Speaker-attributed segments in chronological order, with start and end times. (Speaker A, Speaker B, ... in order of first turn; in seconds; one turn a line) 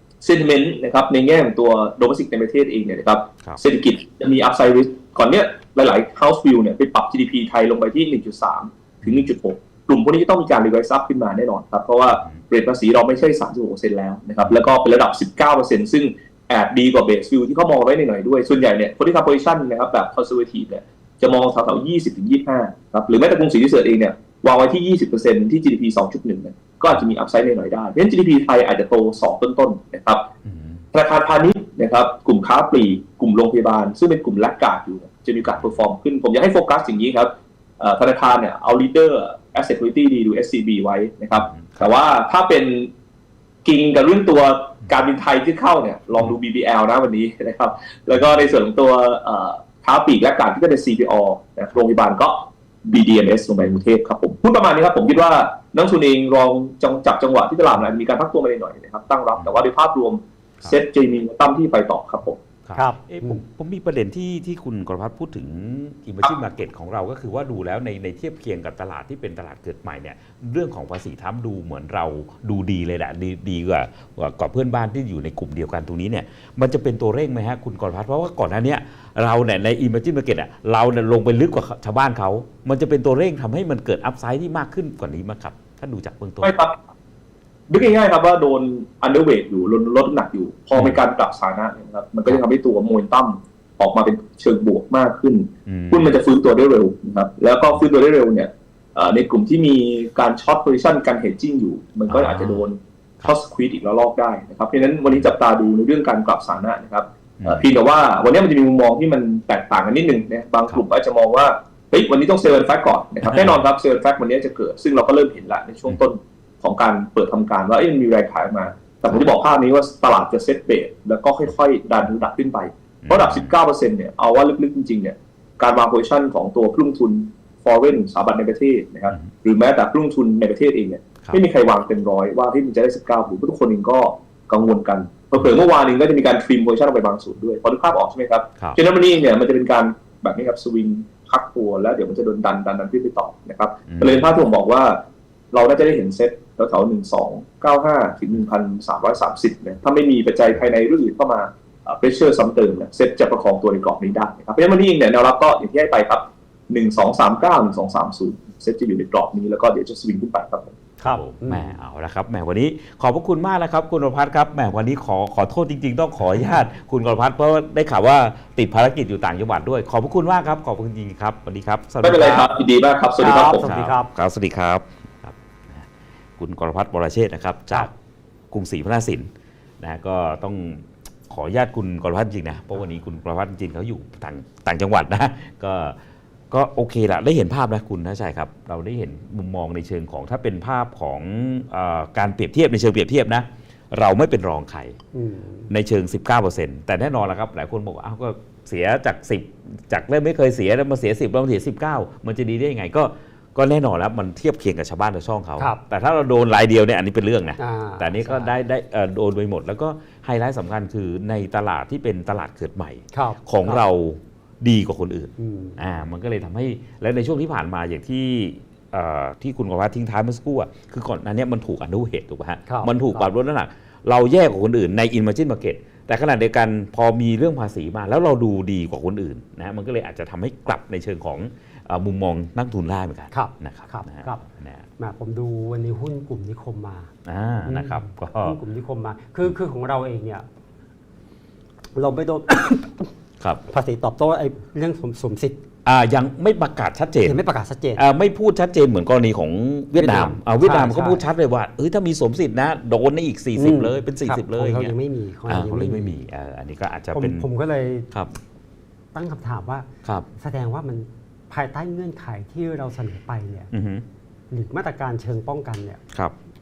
Speaker A: 0.2-30.3
Speaker B: 9.0-9.3
Speaker B: 12.1-12.4
Speaker B: 14.4-14.7
Speaker B: 30.5-30.8
Speaker A: 30.9-42.9
Speaker B: 35.4-35.8
Speaker B: 41.4-41.9
Speaker A: 43.6-62.4
Speaker B: 62.6-86.5
Speaker C: 62.8-63.4
Speaker A: 86.4-86.8
Speaker A: 87.7-145.0
Speaker B: 90.8-91.0
Speaker B: 95.7-96.1
Speaker B: 102.1-102.7
Speaker B: 105.1-105.3
Speaker B: 107.4-107.7
Speaker B: 123.0-123.5
Speaker B: 143.9-144.3
Speaker A: 145.5-160.8
Speaker C: 161.0-161.8
Speaker B: 161.0-172.5
Speaker A: 172.0-173.7
Speaker C: 173.2-174.1
Speaker B: 173.3-175.9
Speaker B: 176.4-177.9
Speaker B: 178.5-179.3
Speaker B: 179.8-186.0
Speaker B: 186.5-195.0
Speaker C: 195.2-195.7
Speaker B: 195.7-234.8
Speaker C: 207.6-208.5
Speaker C: 213.1-213.8
Speaker C: 215.4-215.8
Speaker C: 222.7-223.3
Speaker C: 233.3-234.4
Speaker C: 235.0-237.1
Speaker B: 237.3-238.6
Speaker C: 237.7-240.4
Speaker C: 242.0-243.1
Speaker C: 243.7-245.6
Speaker B: 245.8-247.4
Speaker C: 247.2-248.0
Speaker B: 247.9-254.9
Speaker C: 250.0-251.2
Speaker C: 253.6-256.1
Speaker B: 255.5-257.5
Speaker C: 257.1-258.1
Speaker C: 259.1-259.9
Speaker C: 260.4-263.7
Speaker B: 263.7-264.0
Speaker C: 264.5-266.0